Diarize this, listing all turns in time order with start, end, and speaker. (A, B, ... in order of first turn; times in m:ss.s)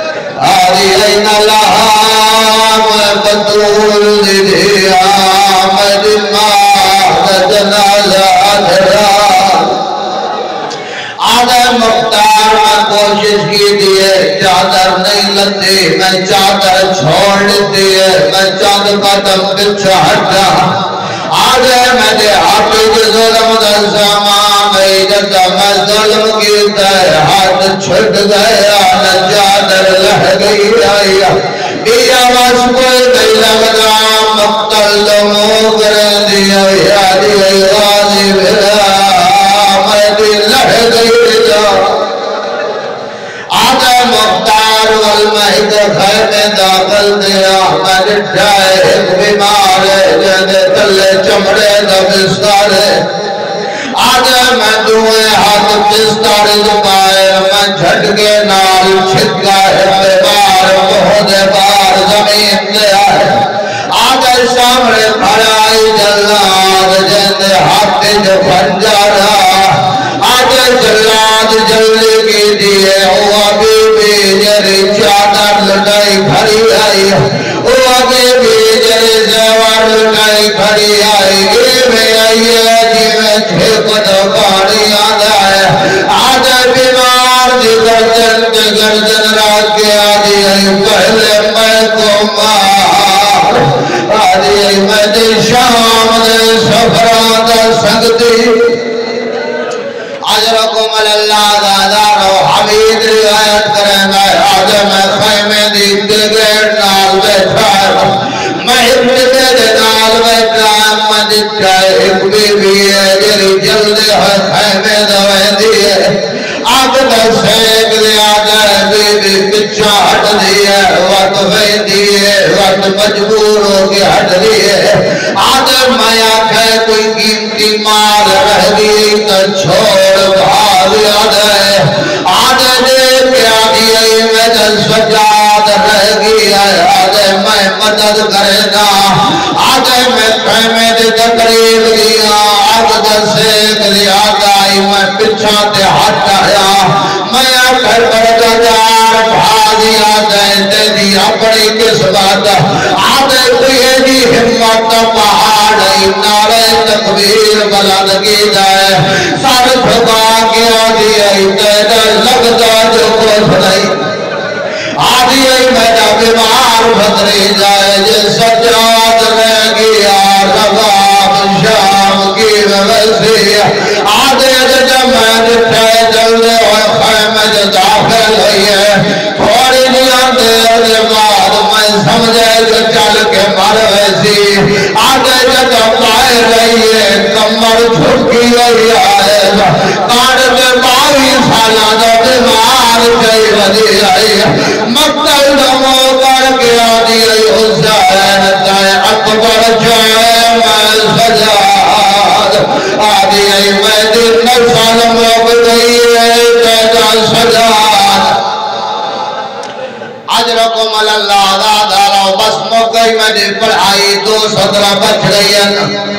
0:00.4-0:09.8 A
0:11.2-0:42.1 A
0:43.5-0:53.1 A
0:53.9-1:38.9 A
1:40.2-2:44.1 A
2:45.0-3:28.4 A
3:30.3-3:36.0 A